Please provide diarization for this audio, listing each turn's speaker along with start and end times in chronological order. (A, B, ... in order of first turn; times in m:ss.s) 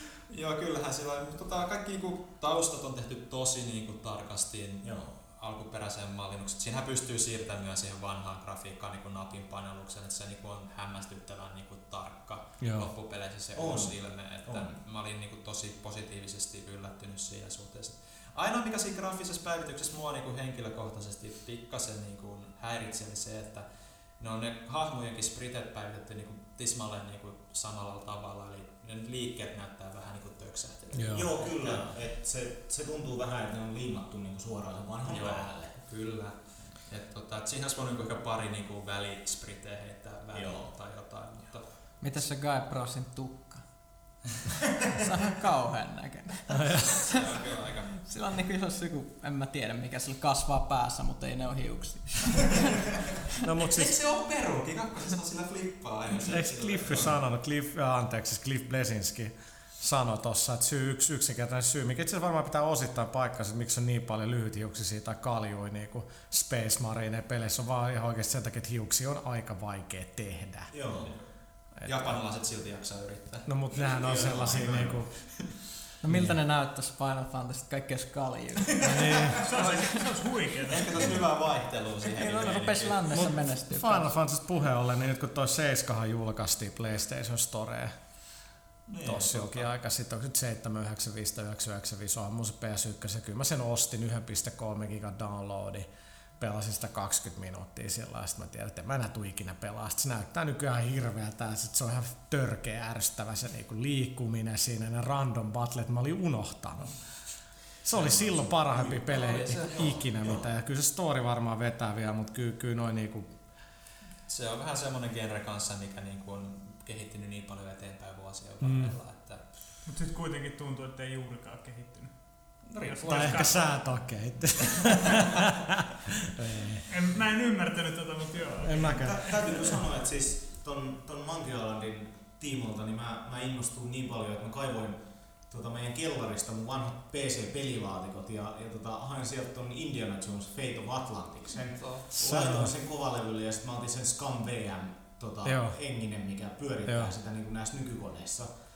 0:00.3-0:31.9 A
0:04.8-0:05.1 B
0:12.6-0:12.9 C
0:13.6-0:14.8 B
0:30.9-0:31.3 C
0:31.1-0:35.7 B
0:35.0-0:41.7 A
0:40.3-0:40.7 B
0:42.0-0:43.6 D
0:44.9-0:47.2 D
0:46.5-0:47.1 C
0:47.0-0:48.0 A
0:48.0-0:52.8 D
0:53.4-0:54.0 C
0:53.6-0:57.2 A
0:56.2-1:10.7 C
1:10.7-1:11.1 B
1:10.9-1:11.2 A
1:11.8-1:12.2 C
1:11.8-1:15.0 A
1:13.5-1:15.1 C
1:13.8-1:15.0 B
1:16.0-1:19.9 D
1:16.1-1:16.4 C
1:18.8-1:19.5 C
1:19.4-1:21.1 E
1:20.7-1:23.4 A
1:22.1-1:24.1 D
1:23.1-1:27.9 C
1:28.9-1:29.7 A
1:29.0-1:35.9 C
1:36.4-1:47.0 C
1:47.8-1:53.3 C
1:47.9-1:50.2 A
1:49.8-1:50.4 B
1:54.3-1:59.5 A
1:58.6-1:58.9 C
1:59.8-2:03.8 E
2:02.6-2:03.8 A
2:03.1-2:06.8 C
2:04.8-2:05.2 E
2:06.9-2:09.1 E
2:08.6-2:09.8 C
2:08.9-2:15.0 B
2:15.5-2:28.5 B
2:21.7-2:22.1 A
2:22.1-2:22.7 C
2:25.4-2:25.8 C
2:26.9-2:27.1 C